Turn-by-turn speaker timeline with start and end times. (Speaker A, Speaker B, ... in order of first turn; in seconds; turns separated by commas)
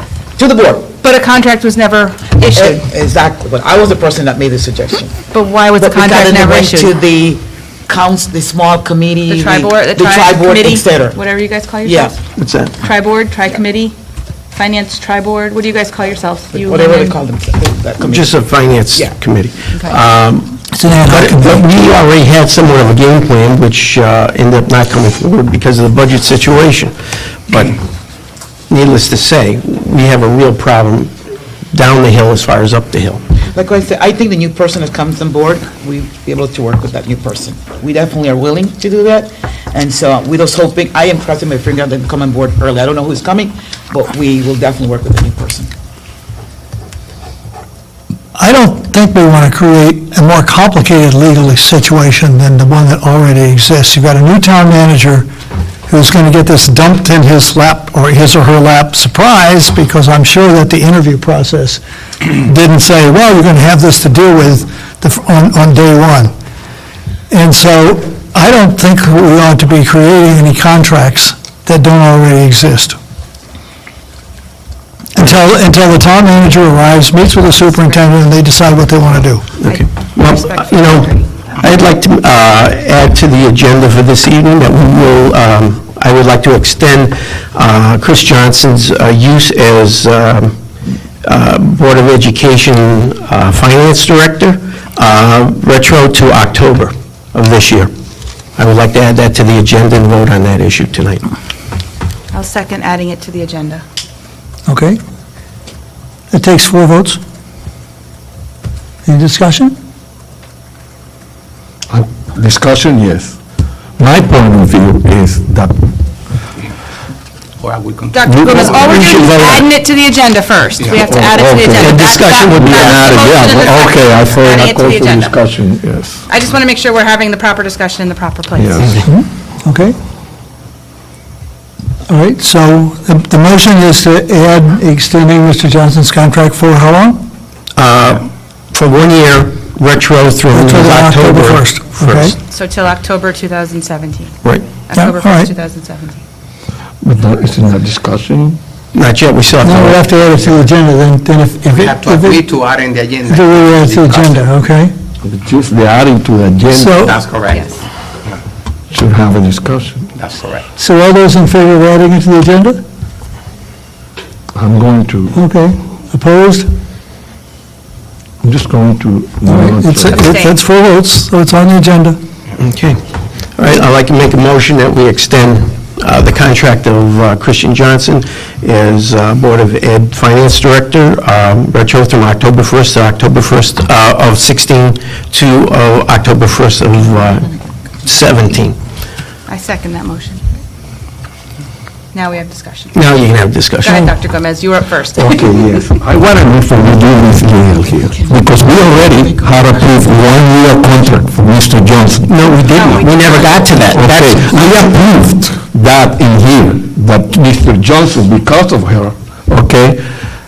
Speaker A: 0.3-0.9, Speaker B: 1.0-2.8, Speaker A: 2.5-5.2, Speaker B: 5.3-6.9, Speaker A: 5.8-11.2, Speaker B: 9.3-12.2, Speaker A: 11.8-12.2, Speaker C: 12.3-12.8, Speaker B: 12.8-13.9, Speaker B: 14.5-17.1, Speaker A: 16.5-19.1, Speaker C: 18.0-26.9, Speaker B: 19.7-20.0, Speaker D: 20.7-21.6, Speaker C: 27.5-27.8, Speaker C: 28.7-31.1, Speaker C: 31.7-33.2, Speaker A: 33.5-45.7, Speaker D: 48.4-55.3, Speaker D: 55.9-61.8, Speaker D: 62.3-66.3, Speaker D: 67.3-73.0, Speaker D: 75.1-79.5, Speaker B: 77.7-78.0, Speaker C: 79.6-90.5, Speaker B: 79.6-81.5, Speaker C: 91.2-97.9, Speaker C: 98.5-101.2, Speaker B: 102.3-103.8, Speaker D: 104.7-105.0, Speaker D: 106.3-107.2, Speaker D: 109.0-109.7, Speaker E: 111.9-113.3, Speaker E: 114.0-115.9, Speaker F: 117.6-117.9, Speaker B: 118.1-125.3, Speaker E: 118.2-119.6, Speaker C: 118.7-119.6, Speaker E: 120.9-126.2, Speaker C: 121.8-123.2, Speaker B: 126.3-129.0, Speaker E: 128.5-129.0, Speaker D: 129.0-129.9, Speaker D: 132.1-137.2, Speaker C: 137.8-142.3, Speaker D: 140.5-142.3, Speaker B: 142.5-146.2, Speaker C: 144.4-144.7, Speaker D: 144.9-145.5, Speaker E: 147.0-148.6, Speaker C: 148.9-150.4, Speaker D: 149.6-152.4, Speaker F: 151.8-154.3, Speaker D: 153.3-154.9, Speaker E: 155.2-157.2, Speaker D: 156.7-157.2, Speaker F: 157.0-157.6, Speaker B: 157.5-157.8, Speaker E: 158.9-160.1, Speaker F: 160.2-160.6, Speaker D: 160.8-162.8, Speaker E: 164.5-165.4, Speaker D: 165.3-166.7, Speaker E: 168.4-170.2, Speaker D: 169.5-172.2, Speaker B: 170.1-170.6, Speaker C: 172.6-173.0, Speaker C: 173.6-187.5, Speaker C: 188.0-188.8, Speaker B: 189.5-190.4, Speaker B: 192.1-193.0, Speaker C: 192.9-194.0, Speaker B: 193.8-195.9, Speaker E: 195.2-202.3, Speaker C: 202.3-204.7, Speaker B: 202.4-203.9, Speaker E: 203.9-210.0